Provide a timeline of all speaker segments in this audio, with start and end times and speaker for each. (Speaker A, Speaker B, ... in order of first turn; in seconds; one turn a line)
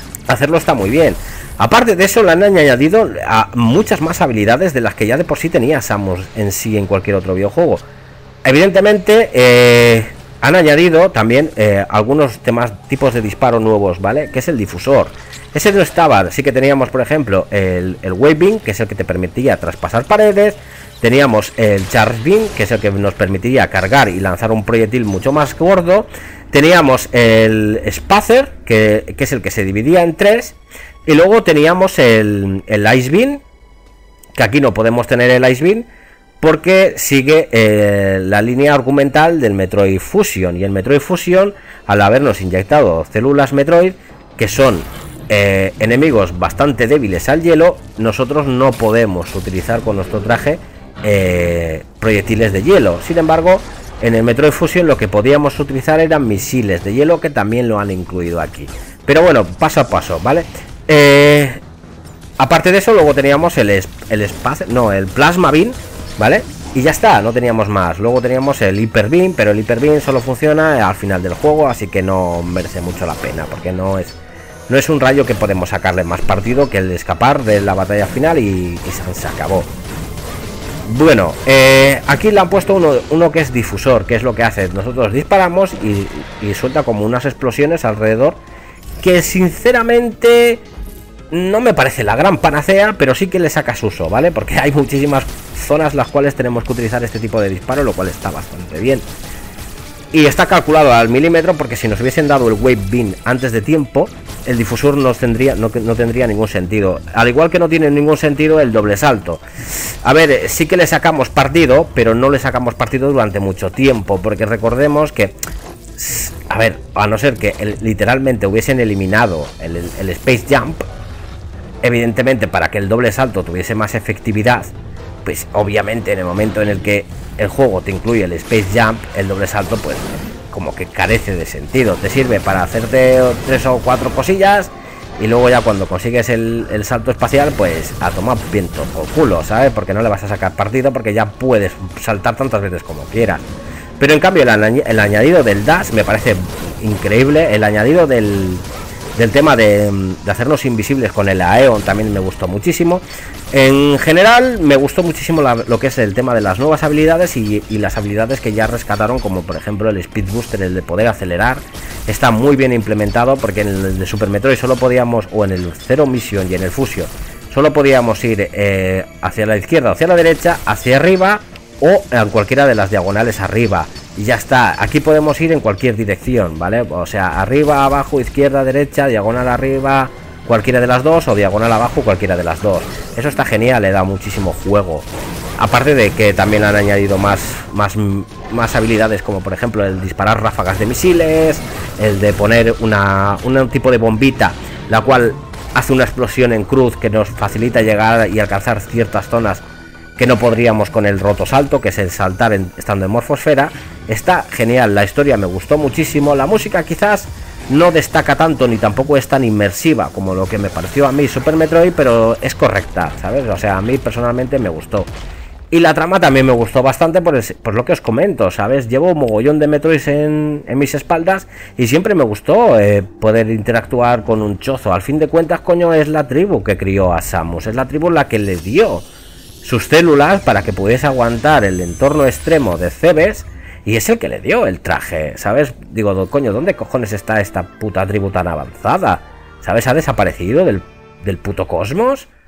Speaker A: 0.3-7.8
Speaker A: 8.4-33.4
Speaker A: 34.4-35.9
Speaker A: 36.4-61.6
Speaker A: 62.4-74.2
Speaker A: 74.7-79.7
Speaker A: 80.9-88.4
Speaker A: 89.0-90.6
Speaker A: 91.3-99.0
Speaker A: 100.1-109.4
Speaker A: 110.0-115.3
Speaker A: 116.0-120.8
Speaker A: 121.8-124.7
Speaker A: 125.2-143.4
Speaker A: 144.0-148.7
Speaker A: 149.2-185.1
Speaker A: 185.6-199.6
Speaker A: 200.2-215.1
Speaker A: 215.7-229.1
Speaker A: 229.6-242.3